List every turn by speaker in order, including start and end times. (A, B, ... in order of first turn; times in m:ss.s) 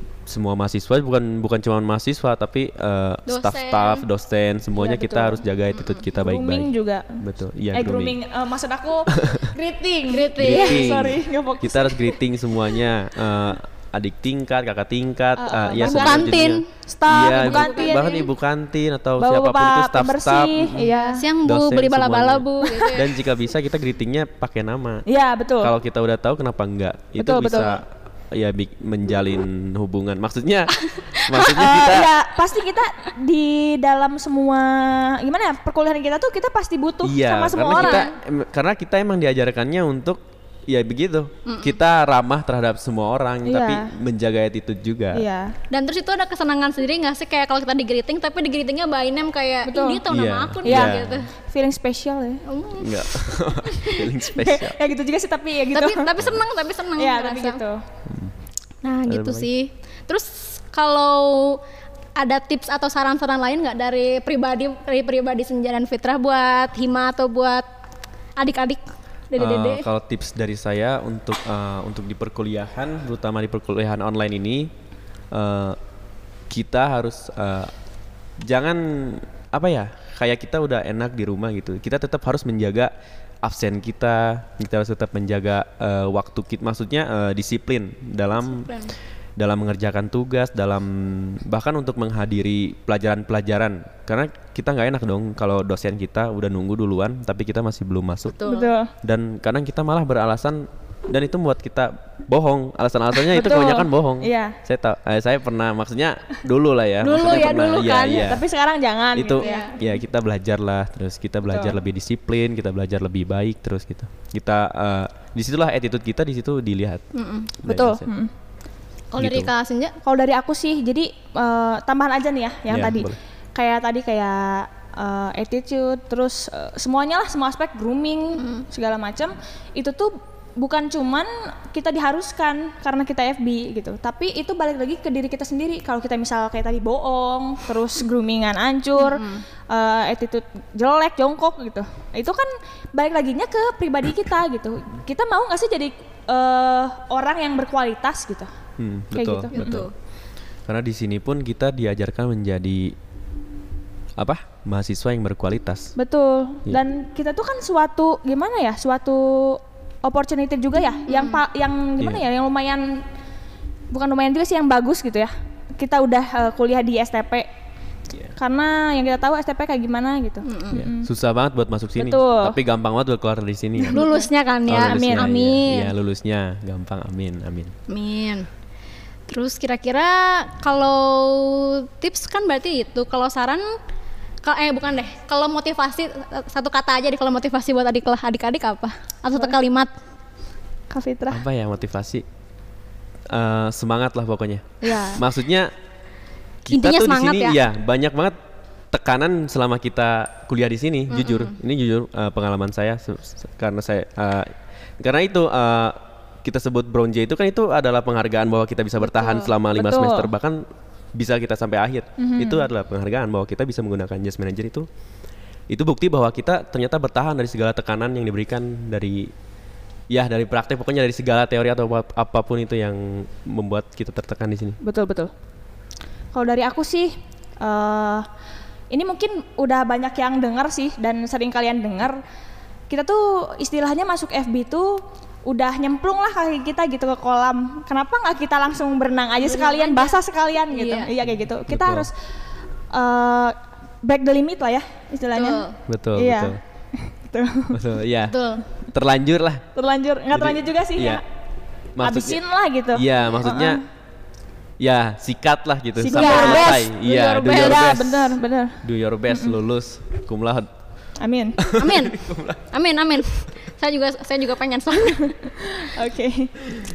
0:00.2-0:08.2 A
0:03.3-0:04.0 B
0:04.8-0:05.4 C
0:05.7-0:06.0 B
0:06.2-0:07.2 C
0:07.7-0:12.2 C
0:09.1-0:09.5 A
0:09.5-0:11.1 B
0:10.4-0:25.0 A
0:15.4-0:18.2 C
0:15.8-0:18.2 B
0:19.2-0:21.2 C
0:20.8-0:23.1 B
0:22.6-0:22.9 C
0:25.1-0:25.7 C
0:25.6-0:32.1 A
0:27.2-0:27.8 C
0:30.8-0:31.5 B
0:31.3-0:38.1 C
0:37.0-0:45.2 A
0:37.7-0:38.1 B
0:41.4-0:41.8 B
0:43.4-0:43.9 C
0:45.1-0:45.6 C
0:45.7-0:51.3 B
0:49.7-0:50.0 C
0:50.1-0:51.2 A
0:50.6-0:52.4 C
0:52.4-0:53.2 B
0:52.8-0:54.8 A
0:53.7-0:56.2 C
0:55.7-0:57.6 B
0:57.0-0:57.8 C
0:58.1-0:58.3 A
0:58.8-1:01.6 B
0:59.0-0:59.5 A
1:02.2-1:07.6 B
1:08.4-1:09.9 B
1:09.4-1:14.7 A
1:15.3-1:15.8 A
1:16.5-1:17.7 A
1:18.4-1:28.7 A
1:28.4-1:28.9 B
1:29.4-1:38.4 A
1:38.4-1:38.7 B
1:38.4-1:38.9 C
1:39.0-1:48.5 A
1:43.3-1:44.6 C
1:47.0-1:48.3 B
1:48.2-1:49.8 C
1:49.1-1:57.0 A
1:49.4-1:49.8 B
1:51.5-1:51.8 C
1:57.1-1:57.6 B
1:57.6-1:58.1 A
1:57.6-1:58.3 C
1:59.1-2:00.0 B
1:59.2-1:59.5 A
2:00.0-2:28.5 C
2:02.7-2:03.2 A
2:08.4-2:08.6 B
2:19.0-2:19.4 B
2:28.8-2:29.9 A
2:29.1-2:29.8 C
2:29.5-2:29.9 B
2:30.7-2:33.0 A
2:34.2-2:35.9 A
2:36.0-2:43.0 C
2:41.1-2:41.4 B
2:42.0-2:42.2 A
2:43.9-2:47.5 C
2:48.4-2:51.1 C
2:50.4-2:50.8 B
2:50.7-2:54.0 A
2:52.0-2:52.6 C
2:53.8-2:54.3 C
2:53.9-2:55.9 B
2:54.7-2:57.7 A
2:54.8-2:55.6 C
2:57.9-2:58.5 B
2:59.3-3:03.7 B
3:04.4-3:09.9 B
3:10.9-3:11.4 C
3:11.3-3:12.2 A
3:13.3-3:15.7 A
3:14.8-3:15.2 C
3:16.6-3:18.4 A
3:16.7-3:17.6 B
3:18.9-3:34.9 A
3:21.1-3:21.6 B
3:29.2-3:29.4 B
3:29.7-3:30.3 C
3:32.2-3:32.7 C
3:35.7-3:39.3 A
3:40.1-3:44.8 A
3:44.8-3:45.3 C
3:46.3-3:48.3 C
3:48.9-3:52.2 C
3:52.9-4:02.1 C
3:59.4-4:01.1 B
4:01.2-4:02.1 A
4:02.9-4:07.8 C
4:05.3-4:05.8 B
4:05.9-4:06.6 A
4:07.7-4:09.6 A
4:08.3-4:08.6 B
4:09.7-4:11.2 C
4:10.3-4:11.2 A
4:12.0-4:12.4 A
4:12.0-4:13.8 C
4:12.9-4:13.8 A
4:14.8-4:20.7 A
4:16.0-4:19.6 C
4:16.1-4:17.7 B
4:21.2-4:21.6 C
4:21.6-4:22.6 A
4:21.7-4:25.5 B
4:25.4-4:26.6 C